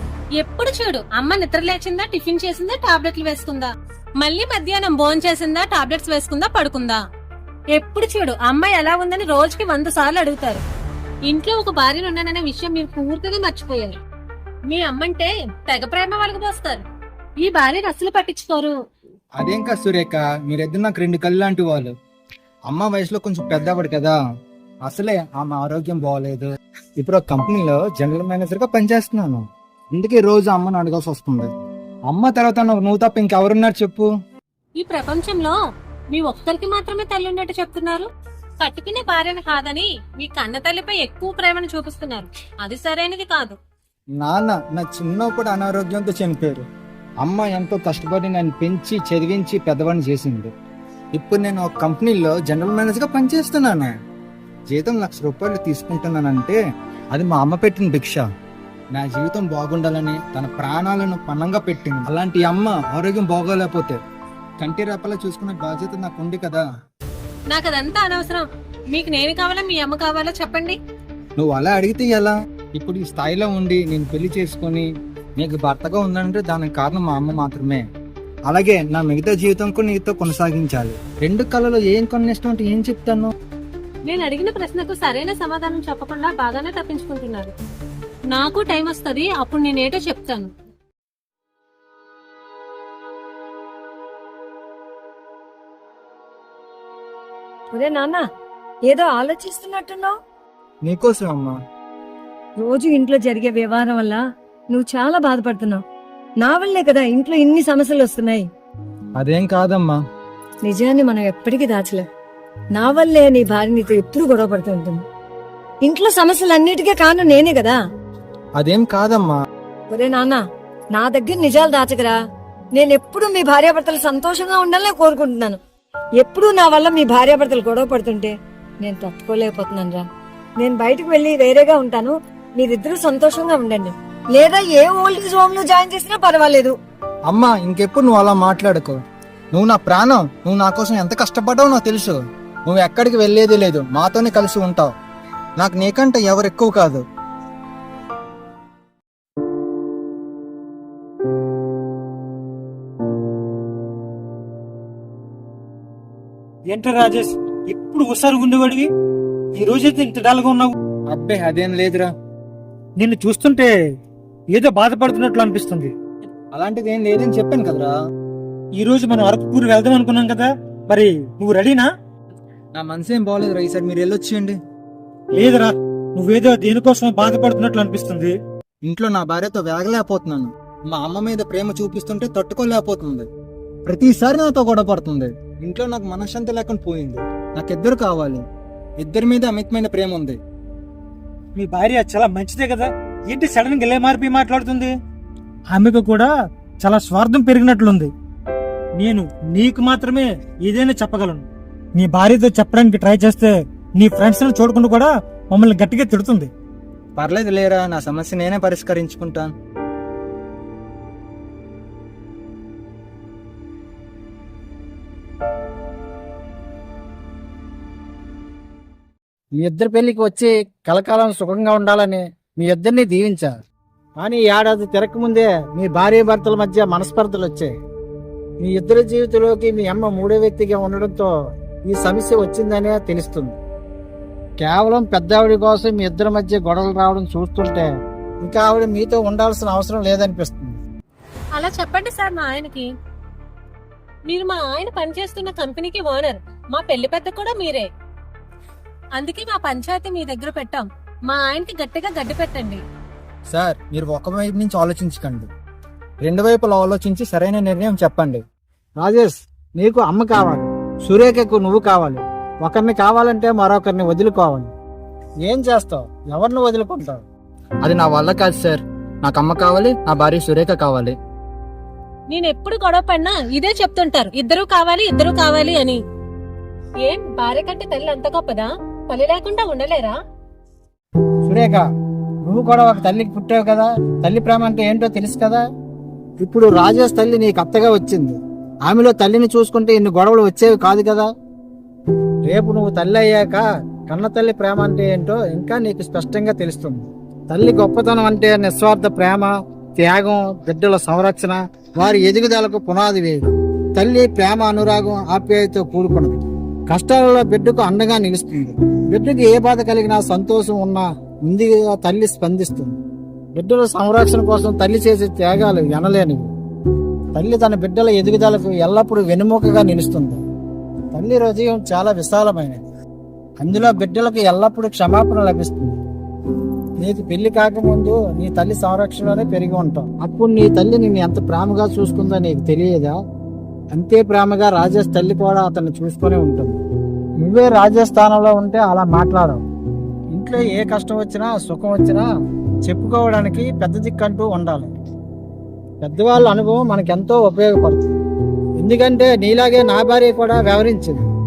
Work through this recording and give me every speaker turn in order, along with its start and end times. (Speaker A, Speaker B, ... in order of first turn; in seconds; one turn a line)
Speaker A: 0.4-7.0
Speaker A: 7.7-10.6
Speaker A: 11.2-14.0
Speaker A: 14.7-16.8
Speaker A: 17.4-18.7
Speaker B: 19.4-21.9
Speaker B: 22.7-24.1
Speaker B: 24.9-26.4
Speaker B: 27.0-31.5
Speaker B: 32.1-34.0
Speaker A: 34.8-35.5
Speaker A: 36.1-38.1
Speaker A: 38.6-43.6
Speaker B: 44.2-46.6
Speaker B: 47.2-50.5
Speaker B: 51.1-53.9
Speaker B: 54.7-56.6
Speaker B: 57.1-58.2
Speaker B: 58.9-64.0
Speaker B: 64.6-66.6
Speaker A: 67.5-70.8
Speaker B: 71.4-74.8
Speaker B: 75.4-77.8
Speaker B: 78.5-83.3
Speaker A: 84.0-87.5
Speaker A: 88.3-90.5
Speaker C: 97.7-98.2
Speaker C: 98.9-100.2
Speaker B: 100.8-101.5
Speaker C: 102.6-105.8
Speaker C: 106.4-108.4
Speaker B: 109.2-110.0
Speaker C: 110.6-112.0
Speaker C: 112.7-115.0
Speaker C: 115.8-117.8
Speaker B: 118.6-119.4
Speaker C: 119.9-120.4
Speaker C: 120.9-122.2
Speaker C: 122.7-125.6
Speaker C: 126.2-130.0
Speaker C: 130.6-136.7
Speaker B: 137.3-138.9
Speaker B: 139.5-144.9
Speaker B: 145.6-147.0
Speaker D: 156.7-158.9
Speaker D: 159.5-160.7
Speaker B: 161.1-162.1
Speaker D: 163.0-163.7
Speaker D: 164.5-165.9
Speaker B: 166.5-167.9
Speaker D: 168.8-171.9
Speaker B: 172.7-174.6
Speaker D: 175.3-178.3
Speaker B: 178.8-183.3
Speaker B: 183.9-188.4
Speaker B: 189.0-190.4
Speaker D: 191.5-194.9
Speaker D: 195.7-196.3
Speaker D: 196.8-198.1
Speaker D: 198.9-206.5
Speaker B: 207.2-209.5
Speaker E: 219.6-223.6
Speaker E: 224.2-227.7
Speaker E: 228.6-231.3
Speaker E: 231.9-233.6
Speaker E: 234.6-237.9
Speaker E: 238.4-240.8
Speaker A: 241.5-242.9
Speaker A: 244.3-247.9
Speaker A: 249.2-252.8
Speaker B: 253.5-255.5
Speaker B: 256.2-258.4
Speaker E: 259.0-264.7
Speaker E: 265.4-267.2
Speaker B: 267.8-271.1
Speaker A: 272.3-276.0
Speaker A: 277.0-280.1
Speaker E: 281.4-281.9
Speaker E: 282.5-285.6
Speaker E: 286.4-291.3
Speaker E: 292.4-312.9
Speaker E: 313.6-316.5
Speaker E: 317.3-320.4
Speaker E: 321.1-322.8
Speaker E: 323.6-326.0
Speaker E: 327.0-333.1
Speaker E: 333.9-336.8
Speaker E: 337.4-339.6
Speaker E: 340.3-342.2
Speaker E: 342.8-345.0
Speaker E: 346.0-348.2
Speaker E: 348.8-351.2